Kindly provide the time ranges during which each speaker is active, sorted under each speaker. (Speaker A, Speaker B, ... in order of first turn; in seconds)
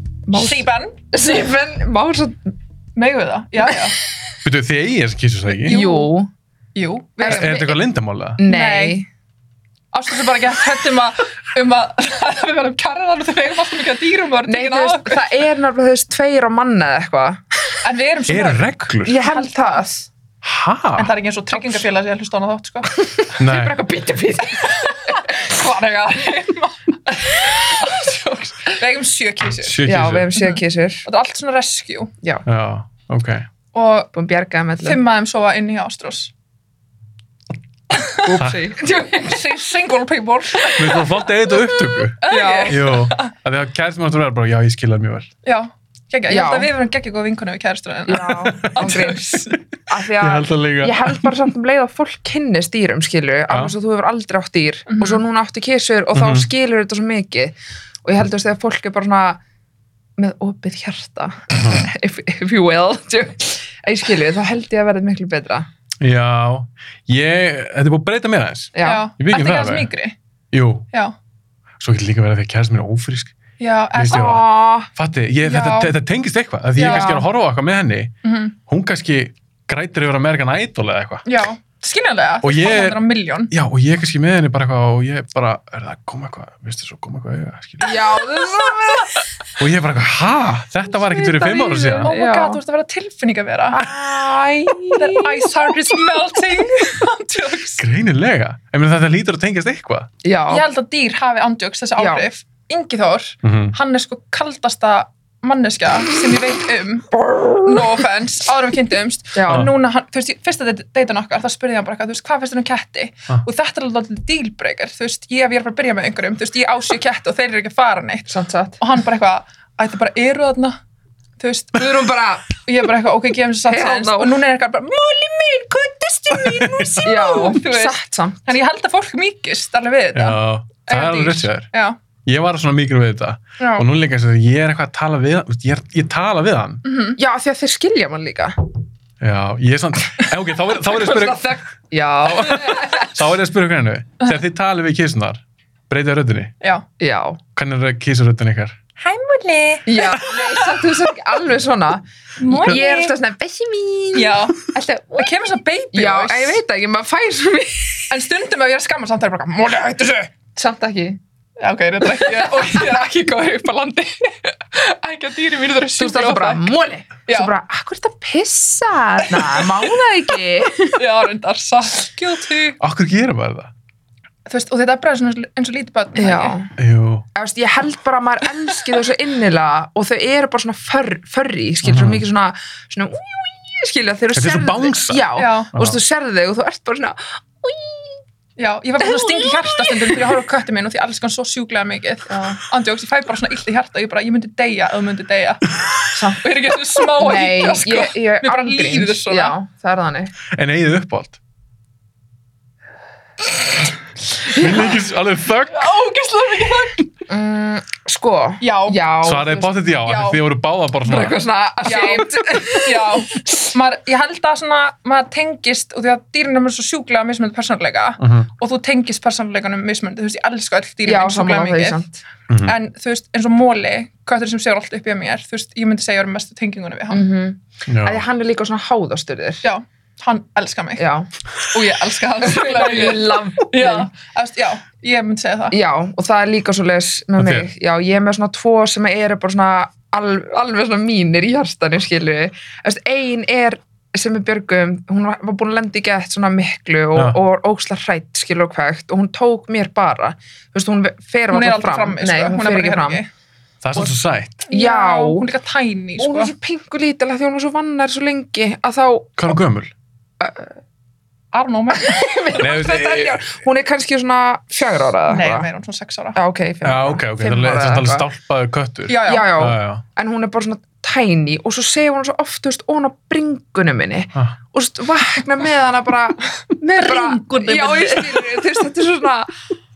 Speaker A: 0.3-2.5, 5.7-6.3, 7.2-7.5, 8.4-9.1, 14.5-17.4, 19.1-20.1, 23.0-26.4, 27.3-28.7, 29.8-31.1, 34.1-35.0, 38.1-39.7, 40.6-41.0, 42.3-42.9, 46.3-46.7, 48.1-59.4, 60.2-65.7, 68.8-69.1, 74.1-74.9, 76.8-77.2, 87.8-89.3, 90.9-92.6, 93.7-95.7, 100.2-100.7, 102.0-102.3, 107.1-108.0, 109.3-109.7, 118.3-118.8, 121.8-122.5, 123.7-124.4, 127.0-128.4, 137.2-138.6, 140.7-143.2, 147.0-147.4, 149.9-155.3, 155.9-158.1, 160.6-161.2, 162.2-163.1, 166.0-171.0, 176.2-176.7, 177.3-188.2, 189.0-190.2, 192.3-192.6, 197.1-200.3, 204.5-205.0, 207.3-209.7, 211.1-213.7, 221.1-222.2, 227.1-229.6, 231.0-231.3, 232.4-234.1, 235.7-253.2, 254.7-255.5, 256.2-259.5, 260.4-260.8, 262.0-265.7, 266.4-268.3, 269.2-279.5
Speaker B: 0.3-1.0, 3.0-4.0, 5.5-6.1, 6.8-7.8, 8.4-9.0, 9.9-15.3, 17.8-19.9, 21.0-22.9, 24.4-29.8, 30.4-32.1, 33.7-34.1, 34.8-36.3, 39.1-41.1, 42.2-43.3, 45.5-49.2, 54.9-55.2, 68.8-70.2, 73.6-74.4, 75.4-75.9, 76.8-77.1, 78.2-78.6, 81.3-83.5, 87.8-89.1, 92.0-93.8, 95.0-97.8, 100.5-107.1, 107.6-120.8, 121.4-121.8, 122.7-132.0, 133.6-133.9, 136.8-137.2, 149.0-150.7, 152.4-153.2, 154.1-156.6, 158.1-160.3, 161.6-166.7, 169.3-169.9, 170.9-172.8, 174.5-176.6, 185.4-185.7, 188.6-195.6, 196.2-199.6, 205.7-207.1, 208.6-209.0, 210.1-210.4, 211.8-222.0, 222.6-227.2, 229.6-231.1, 231.7-235.8, 251.5-253.3, 254.7-256.5, 261.5-262.4, 265.3-266.4, 269.1-269.5, 276.9-278.5
Speaker C: 4.4-5.8, 7.2-8.4, 18.3-19.2, 20.4-21.1, 23.4-23.8, 29.6-30.3, 32.5-33.5, 40.8-45.3, 48.3-49.6, 50.2-51.3, 53.5-53.7, 56.1-56.5, 66.0-69.9, 70.5-70.9, 71.8-73.3, 73.9-78.1, 78.7-81.2, 82.4-83.0, 83.5-88.0, 89.6-92.1, 97.8-100.1, 103.4-103.8, 126.3-127.1, 130.1-131.7, 132.2-136.8, 139.2-141.5, 142.2-146.5, 147.6-148.8, 172.8-173.7, 176.8-177.2, 181.8-182.2, 184.3-186.0, 200.5-201.4, 204.5-205.9, 209.2-211.4, 218.2-218.5, 222.5-222.8, 227.9-228.2, 237.4-237.7, 247.2-247.4, 253.8-254.7, 259.4-259.9, 262.6-263.5, 266.8-270.0